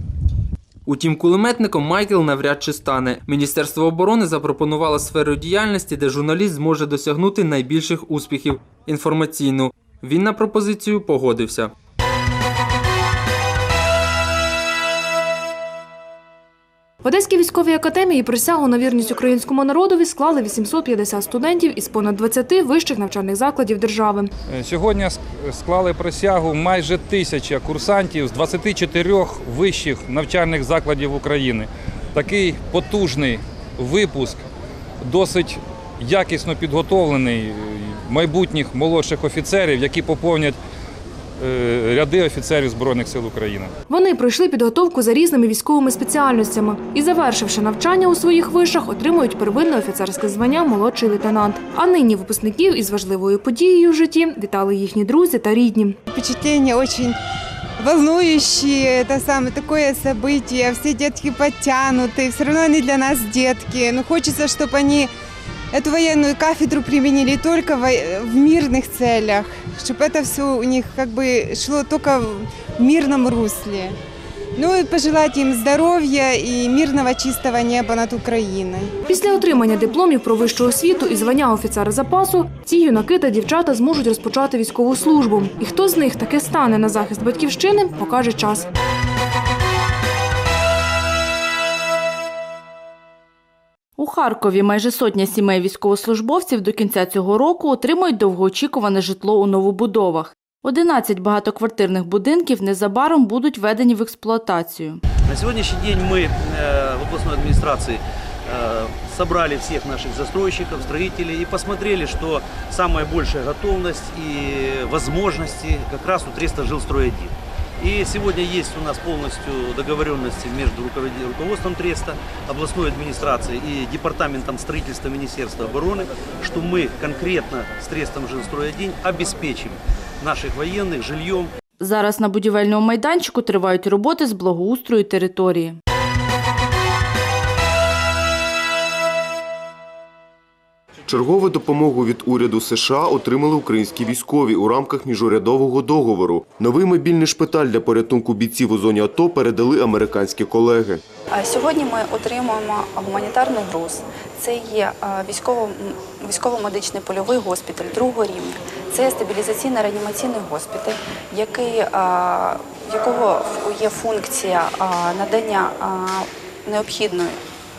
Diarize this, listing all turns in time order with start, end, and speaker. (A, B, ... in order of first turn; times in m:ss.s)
0:00.8-0:11.7 A
0:17.0-0:24.3 B
0:24.5-0:34.4 C
0:35.0-0:40.6 C
0:41.4-0:43.7 C
0:43.9-0:55.9 B
0:56.1-0:57.2 D
0:57.8-1:05.1 D
1:05.7-1:14.0 D
1:14.6-1:19.0 D
1:19.1-1:28.6 B
1:34.0-1:45.0 E
1:45.3-2:11.5 F
2:11.8-2:15.8 E
2:21.1-2:31.0 G
2:31.3-2:47.4 H